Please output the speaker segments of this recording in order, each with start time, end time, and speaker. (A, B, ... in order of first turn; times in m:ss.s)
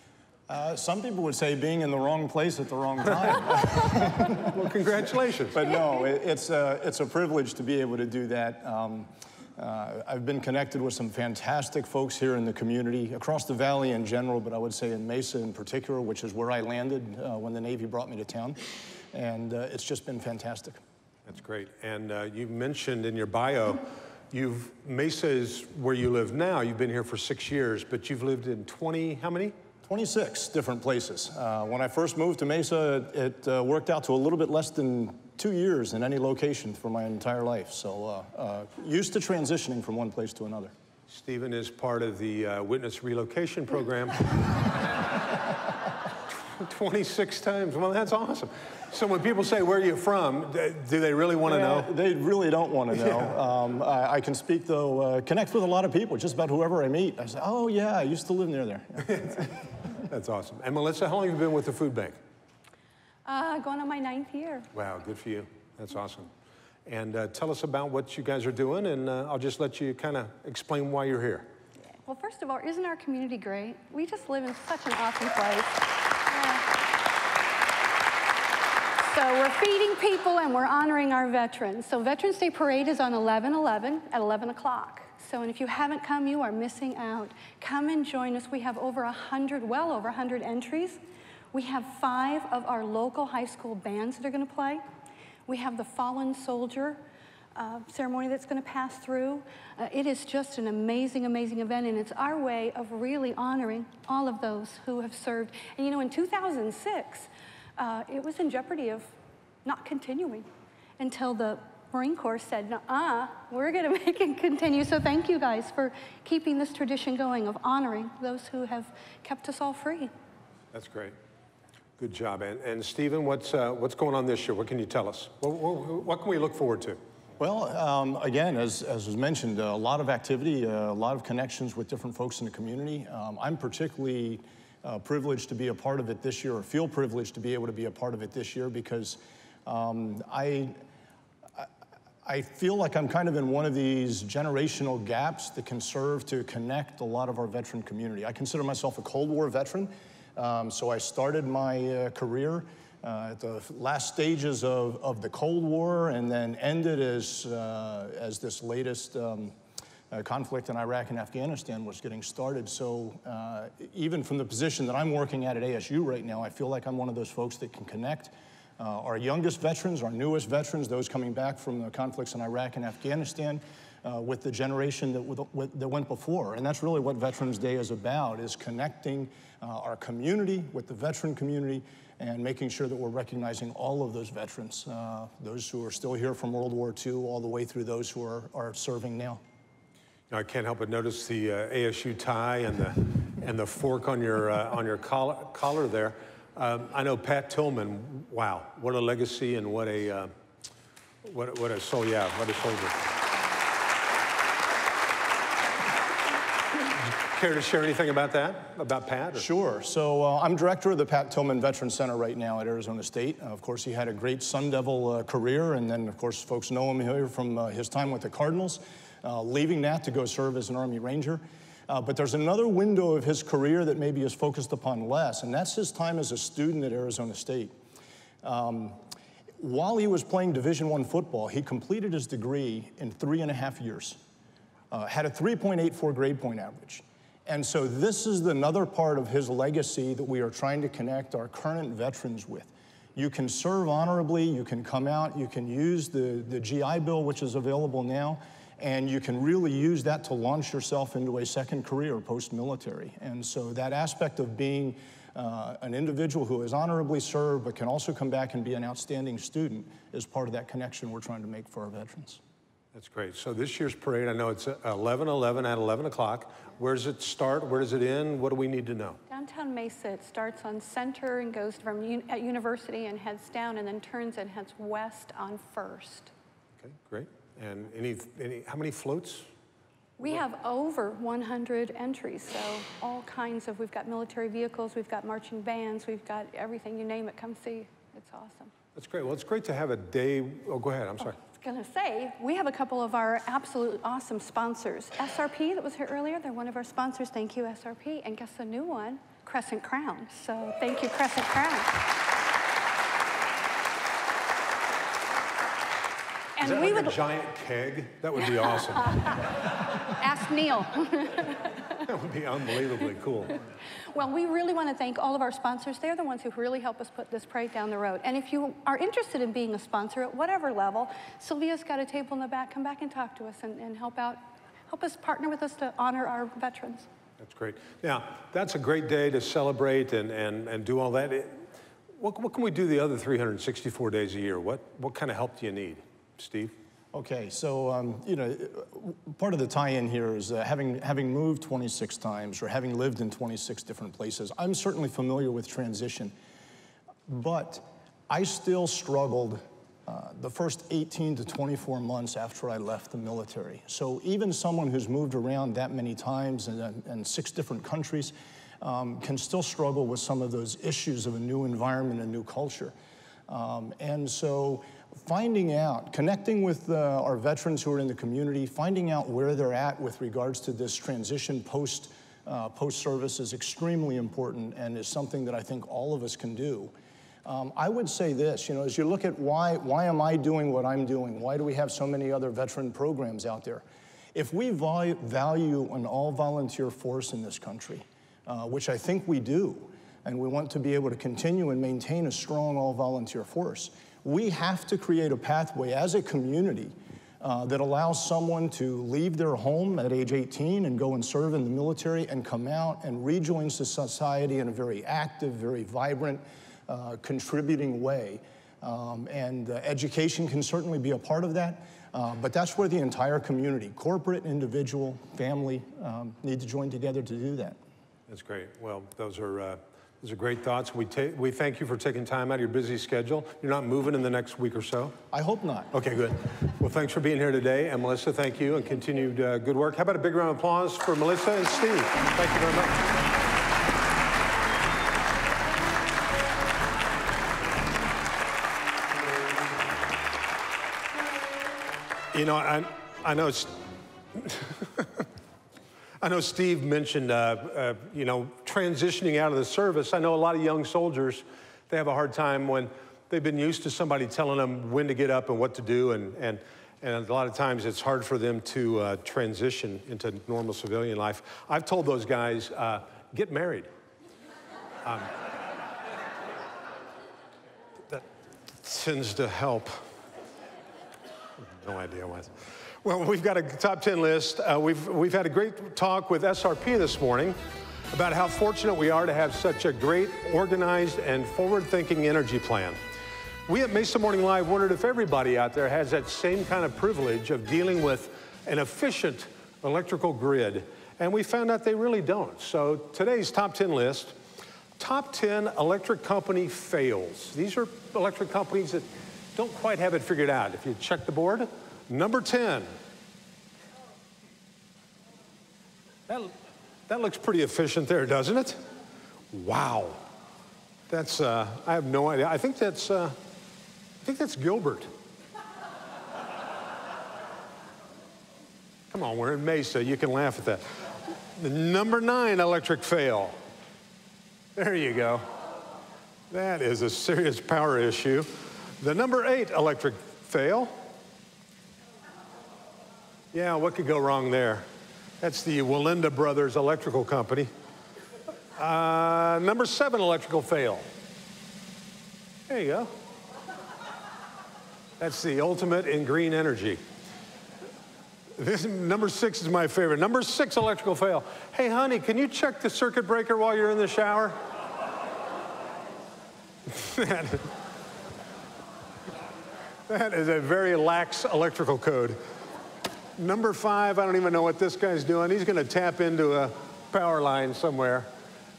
0:00.5-0:04.8 A
0:04.3-0:05.7 B
0:05.5-0:18.6 A
0:19.1-0:20.8 A
0:21.3-0:29.6 B
0:29.9-0:40.7 A
0:41.1-0:44.9 B
0:46.3-0:51.9 B
0:51.4-0:59.6 A
1:00.0-1:02.2 B
1:03.2-1:04.7 C
1:04.7-1:06.3 B
1:06.9-1:11.5 B
1:12.0-1:16.6 C
1:19.0-1:31.0 C
1:31.5-1:34.8 C
1:35.5-1:37.0 C
1:37.6-1:49.1 C
1:49.6-2:00.1 C
2:00.7-2:01.2 B
2:02.0-2:07.0 B
2:07.4-2:20.8 A
2:22.2-2:39.6 A
2:40.1-3:09.4 A
3:10.3-3:20.3 B
3:21.2-3:23.1 B
3:27.1-3:29.5 B
3:29.4-3:47.7 A
3:48.4-3:49.0 A
3:49.6-3:54.2 A
3:54.9-4:22.4 A
4:22.9-4:29.2 B
4:29.3-4:36.3 C
4:36.8-4:39.5 B
4:40.2-4:48.7 C
4:49.0-4:51.4 B
4:51.4-5:02.0 C
5:06.6-5:07.2 C
5:06.6-5:09.4 B
5:08.4-5:09.4 C
5:10.0-5:11.7 C
5:12.1-5:13.6 B
5:14.1-5:27.1 C
5:27.4-5:31.6 B
5:32.2-5:36.7 B
5:37.1-5:46.4 A
5:47.3-6:02.9 A
6:03.5-6:16.9 A
6:17.4-6:57.8 A
6:58.3-7:05.2 B
7:05.3-7:05.9 A
7:05.9-7:13.0 B
7:22.3-7:23.8 B
7:24.3-7:25.3 B
7:26.2-7:43.9 B
7:45.0-7:45.3 B
7:48.8-7:50.0 B
7:51.6-7:57.6 B
7:58.1-8:03.0 B
8:03.7-8:14.4 B
8:15.0-8:22.9 B
8:26.3-8:26.5 B
8:27.1-8:28.8 B
8:29.5-8:30.2 B
8:31.1-8:33.4 B
8:34.2-8:35.1 B
8:39.1-8:43.6 B
8:44.8-8:45.5 B
8:46.5-8:50.9 B
8:53.5-8:54.9 B
8:55.4-8:57.7 B
8:58.8-9:01.1 B
9:02.7-9:03.1 B
9:05.2-9:07.0 B
9:08.6-9:14.6 B
9:16.9-9:17.7 B
9:20.1-9:22.4 B
9:23.4-9:28.3 B